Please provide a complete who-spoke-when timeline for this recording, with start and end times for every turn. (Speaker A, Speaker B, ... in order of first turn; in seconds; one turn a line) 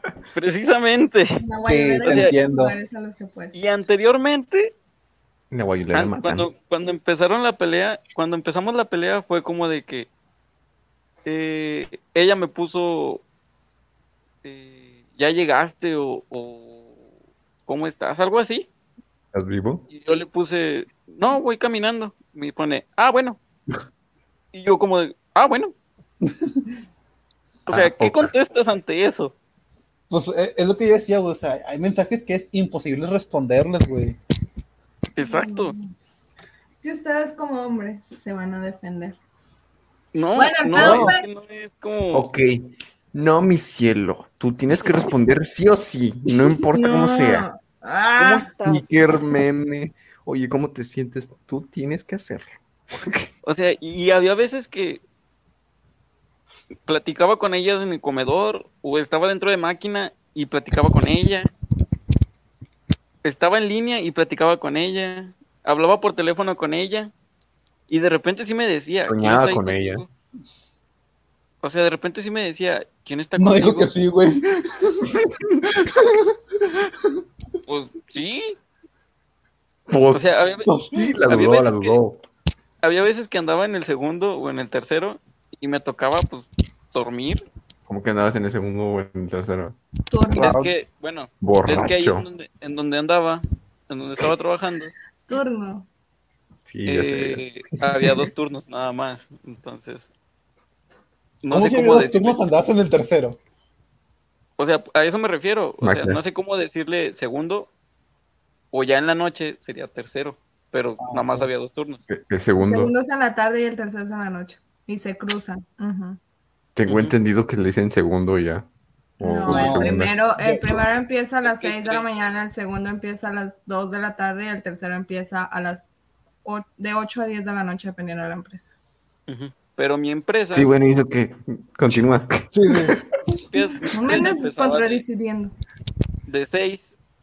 Speaker A: 0.3-1.4
Speaker B: 1.4-3.6
Speaker C: 1.6-2.8
Speaker A: 2.0-2.3
Speaker A: 3.5-4.7
Speaker D: 5.5-6.5
Speaker A: 5.9-10.1
Speaker A: 11.2-13.2
Speaker A: 14.4-16.9
Speaker A: 17.7-18.7
Speaker D: 19.3-19.8
Speaker A: 19.9-23.4
Speaker A: 24.5-25.7
Speaker C: 26.2-26.6
Speaker A: 27.7-29.3
Speaker D: 27.7-28.3
Speaker C: 30.1-34.2
Speaker A: 35.1-35.7
Speaker B: 35.2-35.9
Speaker B: 36.8-39.2
Speaker A: 40.1-42.3
Speaker B: 40.4-41.2
Speaker C: 40.8-41.1
Speaker D: 42.1-47.5
Speaker B: 46.7-48.5
Speaker A: 48.1-48.9
Speaker D: 48.6-53.2
Speaker A: 53.4-55.0
Speaker A: 56.9-61.5
Speaker A: 63.2-67.1
Speaker A: 67.9-70.1
Speaker D: 69.0-70.0
Speaker A: 71.6-73.9
Speaker C: 73.4-75.1
Speaker C: 75.7-76.9
Speaker A: 77.7-78.6
Speaker D: 79.9-80.2
Speaker A: 80.1-80.7
Speaker C: 80.7-81.0
Speaker D: 80.9-82.2
Speaker A: 81.2-82.0
Speaker A: 82.8-87.4
Speaker D: 87.9-89.8
Speaker B: 90.1-90.5
Speaker C: 90.4-90.7
Speaker A: 90.4-94.9
Speaker D: 91.4-92.2
Speaker B: 95.3-95.9
Speaker D: 96.7-98.3
Speaker A: 96.8-100.1
Speaker A: 101.4-102.5
Speaker C: 101.5-103.4
Speaker A: 104.6-107.7
Speaker D: 105.8-106.2
Speaker A: 108.7-112.0
Speaker C: 111.0-111.5
Speaker D: 112.1-112.9
Speaker B: 112.6-116.2
Speaker D: 116.8-118.7
Speaker A: 116.9-117.1
Speaker D: 119.2-120.1
Speaker B: 119.2-128.7
Speaker C: 119.5-120.8
Speaker A: 121.4-122.0
Speaker A: 129.3-130.7
Speaker D: 130.5-133.0
Speaker C: 132.5-133.0
Speaker A: 133.5-135.0
Speaker B: 133.9-135.5
Speaker A: 136.3-136.9